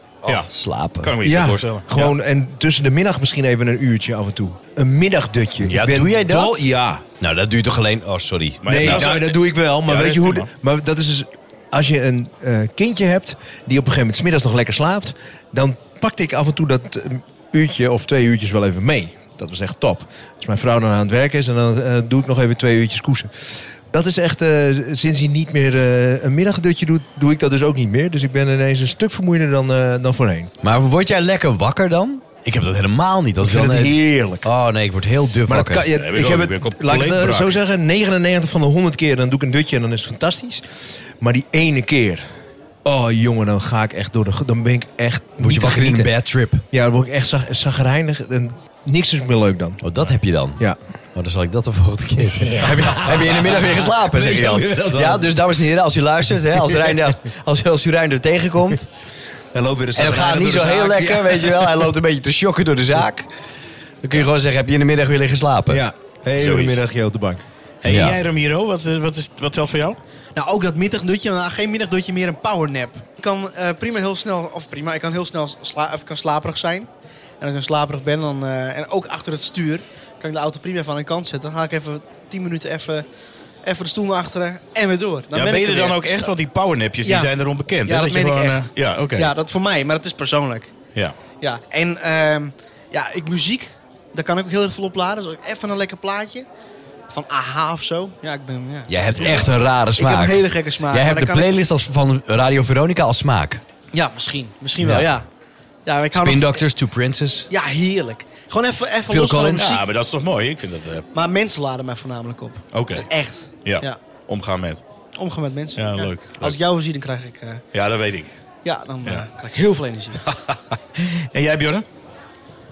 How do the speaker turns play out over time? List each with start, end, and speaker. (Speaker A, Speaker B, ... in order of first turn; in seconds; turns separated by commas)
Speaker A: 0.2-1.1, Speaker B: 1.0-2.1, Speaker C: 1.2-7.0, Speaker A: 5.6-9.1, Speaker B: 8.6-10.5, Speaker C: 8.7-30.5, Speaker A: 30.6-35.9, Speaker C: 33.4-34.5, Speaker C: 35.5-40.6, Speaker B: 35.9-37.6, Speaker C: 41.2-42.2, Speaker C: 42.9-46.1, Speaker A: 45.4-46.6, Speaker C: 46.7-49.9, Speaker A: 49.8-50.6, Speaker A: 51.1-58.9, Speaker C: 52.5-55.4, Speaker C: 56.5-57.1, Speaker C: 59.5-61.9, Speaker A: 60.0-63.3, Speaker A: 64.0-65.8, Speaker C: 65.7-67.4, Speaker B: 66.4-66.8, Speaker B: 67.8-70.0, Speaker A: 67.9-68.2, Speaker D: 70.4-76.9, Speaker D: 77.4-83.0, Speaker D: 83.6-86.0, Speaker B: 85.3-89.3, Speaker D: 87.0-87.3, Speaker D: 87.9-90.7, Speaker D: 91.4-96.5, Speaker D: 97.1-101.5, Speaker A: 98.9-103.6, Speaker B: 99.2-99.5, Speaker D: 103.9-105.3, Speaker A: 104.8-105.1, Speaker D: 105.9-106.6, Speaker A: 106.1-107.5, Speaker D: 107.5-109.9, Speaker A: 109.1-109.7, Speaker B: 109.6-111.1, Speaker D: 111.1-114.0, Speaker B: 112.7-113.1, Speaker B: 113.7-114.8, Speaker D: 115.2-117.6, Speaker B: 115.8-116.6, Speaker B: 117.7-118.3, Speaker D: 118.7-120.2, Speaker B: 120.3-121.8